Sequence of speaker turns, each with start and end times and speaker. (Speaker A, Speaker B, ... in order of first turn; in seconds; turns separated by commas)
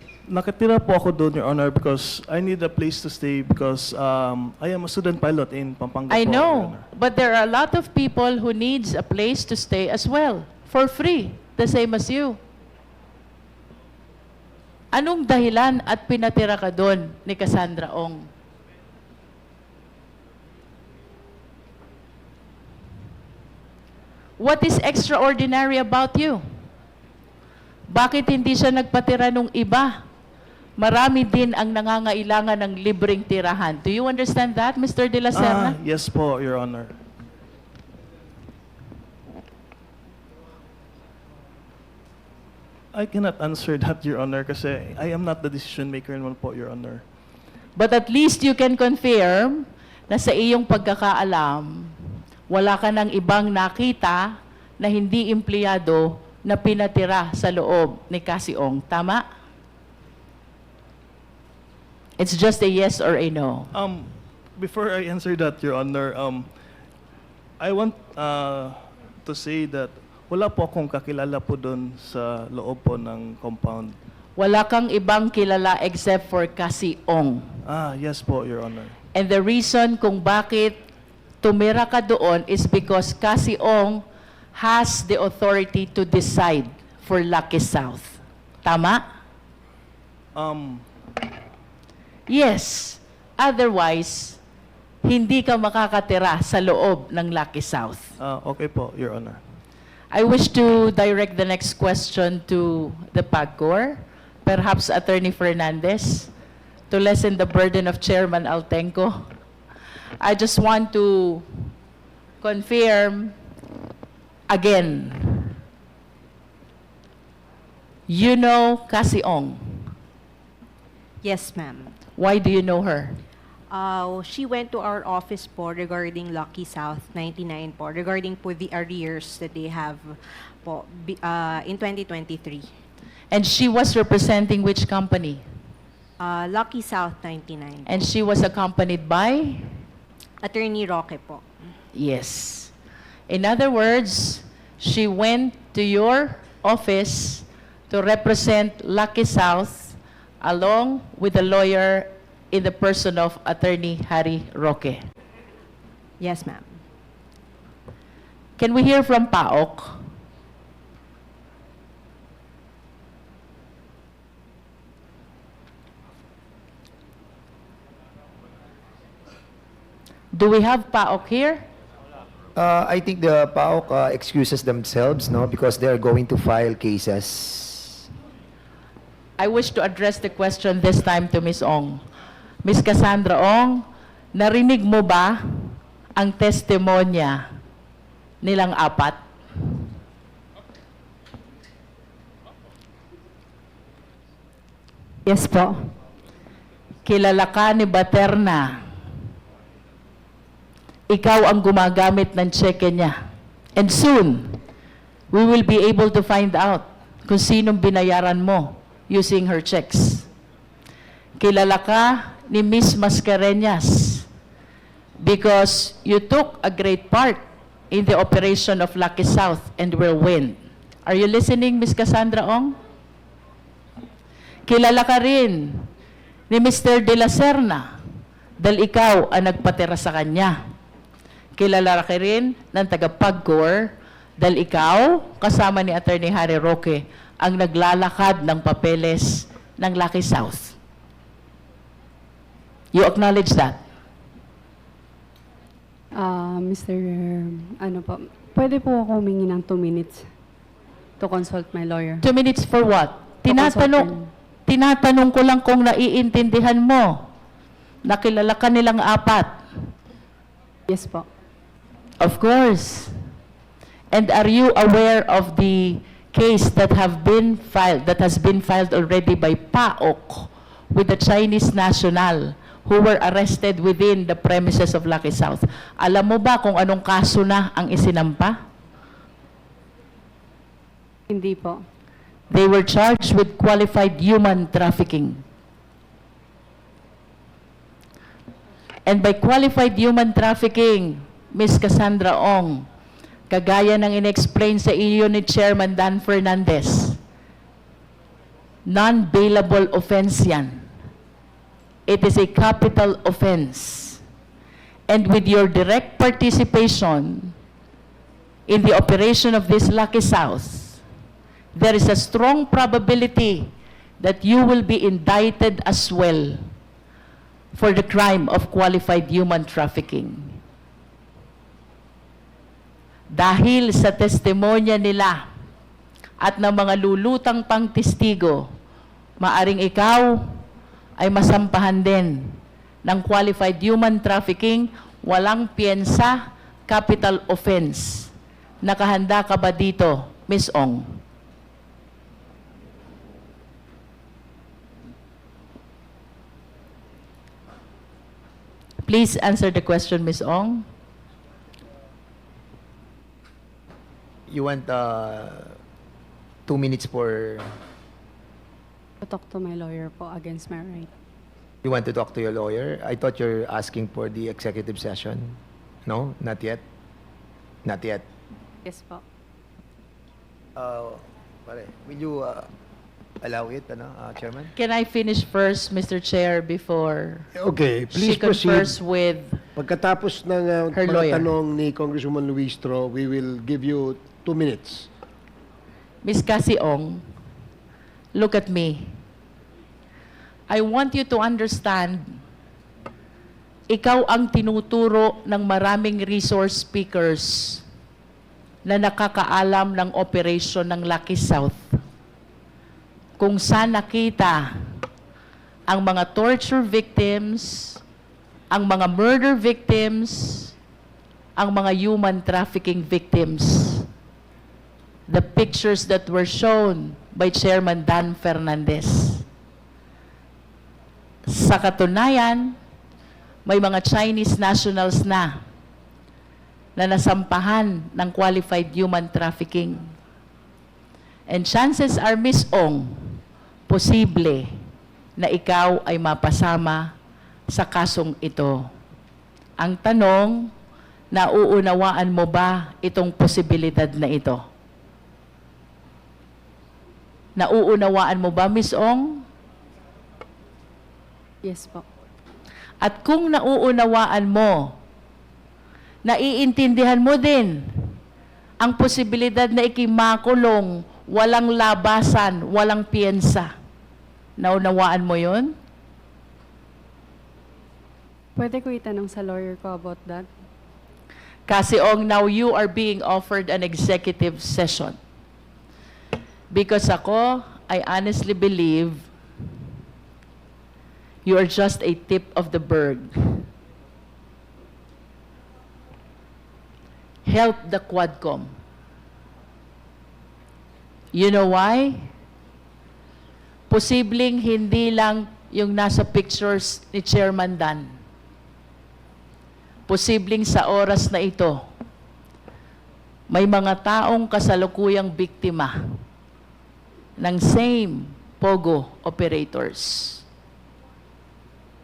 Speaker A: 0.3-6.9, Speaker B: 6.1-12.4, Speaker B: 14.9-18.3, Speaker B: 24.4-26.4, Speaker B: 27.9-29.9, Speaker B: 30.8-35.8, Speaker A: 35.3-37.0, Speaker A: 42.9-47.0, Speaker B: 47.8-51.9, Speaker B: 52.5-54.3, Speaker B: 54.8-59.2, Speaker B: 62.2-63.7, Speaker A: 63.7-66.5, Speaker A: 67.6-74.0, Speaker B: 74.4-77.5, Speaker A: 77.7-78.9, Speaker B: 79.1-80.8, Speaker B: 81.4-84.0, Speaker B: 84.5-89.0, Speaker A: 90.3-90.8, Speaker B: 92.3-94.4, Speaker B: 95.0-98.1, Speaker A: 98.2-99.4, Speaker B: 100.1-106.3, Speaker B: 106.9-109.3, Speaker B: 110.2-111.7, Speaker B: 112.4-113.3, Speaker B: 114.5-115.5, Speaker B: 118.1-119.9, Speaker C: 121.2-121.9, Speaker B: 122.2-123.2, Speaker C: 123.7-132.7, Speaker B: 133.3-135.4, Speaker C: 136.2-137.9, Speaker B: 137.8-139.7, Speaker C: 140.4-141.5, Speaker B: 141.9-142.7, Speaker B: 143.3-155.0, Speaker C: 156.2-156.8, Speaker B: 158.6-160.0, Speaker B: 170.3-171.6, Speaker D: 172.6-178.0, Speaker B: 179.4-182.0, Speaker B: 182.6-187.4, Speaker B: 188.4-189.2, Speaker E: 195.2-195.9, Speaker B: 197.0-198.8, Speaker B: 201.1-203.2, Speaker B: 203.8-204.6, Speaker B: 205.3-210.3, Speaker B: 211.4-214.3, Speaker B: 215.2-222.8, Speaker B: 224.7-225.9, Speaker B: 226.5-227.8, Speaker B: 228.6-230.6, Speaker B: 231.6-240.8, Speaker B: 242.9-243.8, Speaker E: 246.1-250.3, Speaker E: 251.2-252.2, Speaker B: 252.2-254.1, Speaker E: 253.5-254.3, Speaker B: 254.7-257.2, Speaker B: 258.1-259.6, Speaker E: 260.9-261.2, Speaker B: 262.2-263.1, Speaker B: 264.1-278.6, Speaker E: 281.3-281.8, Speaker B: 282.5-285.4, Speaker B: 289.1-292.9, Speaker B: 293.5-297.2, Speaker B: 298.9-300.9, Speaker B: 302.1-304.2, Speaker B: 305.1-307.5, Speaker B: 308.7-311.0, Speaker B: 311.7-316.7, Speaker B: 317.7-320.6, Speaker B: 323.3-325.4, Speaker B: 326.4-328.6, Speaker B: 329.4-330.4, Speaker B: 331.2-338.3, Speaker B: 338.8-341.2, Speaker B: 349.1-350.9, Speaker D: 354.5-355.8, Speaker D: 356.7-357.8, Speaker E: 359.2-361.1, Speaker D: 361.8-366.8, Speaker D: 367.8-368.2, Speaker E: 368.8-369.2, Speaker D: 370.8-372.7, Speaker D: 373.4-374.7, Speaker B: 374.8-377.5, Speaker F: 377.6-378.9, Speaker B: 378.1-379.6, Speaker F: 379.8-385.1, Speaker B: 380.9-381.5, Speaker B: 386.2-387.2, Speaker B: 388.3-389.1, Speaker B: 390.7-392.4, Speaker B: 393.9-397.8, Speaker B: 398.9-402.0, Speaker B: 403.4-404.7, Speaker B: 405.9-408.0, Speaker B: 408.7-410.7, Speaker B: 411.6-414.1, Speaker B: 415.3-419.4, Speaker B: 421.5-422.8, Speaker B: 423.6-425.6, Speaker B: 426.9-430.0, Speaker B: 431.5-434.7, Speaker B: 435.4-437.1, Speaker B: 437.7-438.9, Speaker B: 439.8-440.7, Speaker B: 441.3-444.6, Speaker B: 447.6-449.4, Speaker E: 451.6-452.0, Speaker B: 453.0-454.9, Speaker B: 456.2-458.1, Speaker B: 458.8-463.7, Speaker B: 464.6-465.7, Speaker E: 468.6-470.5, Speaker B: 471.7-475.2, Speaker B: 476.7-479.3, Speaker B: 481.4-483.6, Speaker B: 487.4-488.7, Speaker B: 491.3-492.3, Speaker B: 493.9-498.1, Speaker B: 500.1-501.8, Speaker B: 503.5-505.9, Speaker B: 507.4-510.4